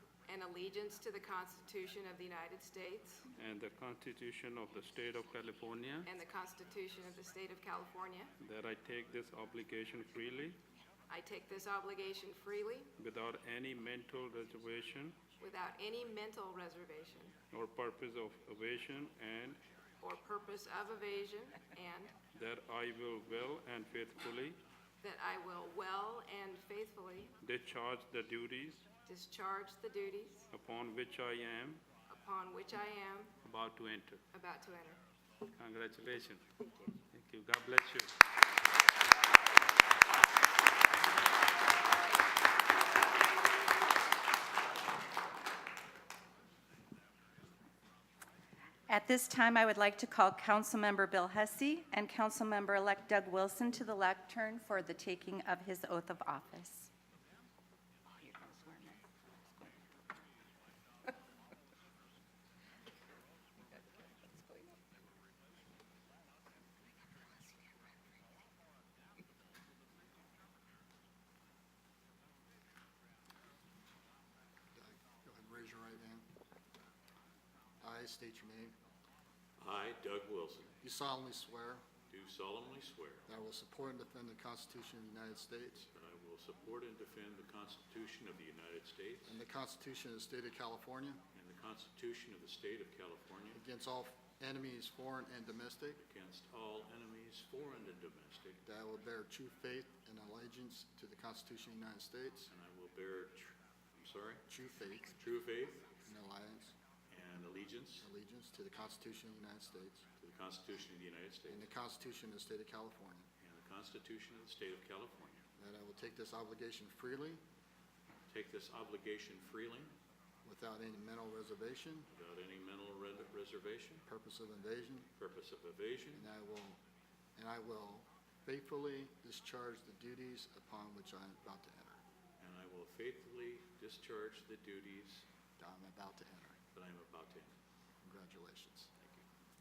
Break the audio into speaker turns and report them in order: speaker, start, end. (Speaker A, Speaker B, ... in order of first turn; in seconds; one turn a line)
Speaker A: 0.3-3.2
Speaker B: 3.4-6.1
Speaker A: 6.0-8.3
Speaker B: 8.4-10.6
Speaker A: 11.1-12.9
Speaker B: 13.0-15.2
Speaker A: 15.4-17.3
Speaker B: 17.5-19.6
Speaker A: 20.0-22.1
Speaker B: 22.3-24.6
Speaker A: 25.0-27.3
Speaker B: 27.4-28.8
Speaker A: 29.1-30.5
Speaker B: 30.5-31.8
Speaker A: 32.1-33.3
Speaker B: 33.4-34.2
Speaker A: 34.3-35.0
Speaker B: 35.5-36.4
Speaker B: 37.1-38.1
Speaker C: 48.9-56.9
Speaker C: 58.2-59.0
Speaker D: 74.7-76.2
Speaker D: 77.8-78.7
Speaker E: 79.6-80.7
Speaker D: 80.8-81.8
Speaker E: 82.1-83.2
Speaker D: 83.3-85.9
Speaker E: 85.9-89.4
Speaker D: 89.2-91.2
Speaker E: 91.3-93.6
Speaker D: 93.5-96.0
Speaker E: 96.0-98.6
Speaker D: 98.6-102.5
Speaker E: 102.5-104.4
Speaker D: 104.5-105.2
Speaker E: 105.2-106.0
Speaker D: 106.0-106.7
Speaker E: 107.1-108.1
Speaker D: 108.0-110.0
Speaker E: 110.2-111.7
Speaker D: 111.5-113.3
Speaker E: 113.4-115.4
Speaker D: 115.6-117.4
Speaker E: 118.3-119.9
Speaker D: 120.4-122.1
Speaker E: 122.1-124.0
Speaker D: 124.0-125.1
Speaker E: 125.2-126.3
Speaker D: 126.1-126.8
Speaker D: 127.4-132.0
Speaker E: 132.4-135.2
Speaker D: 135.6-136.6
Speaker E: 136.7-137.5
Speaker D: 138.0-138.9
Speaker E: 139.0-139.2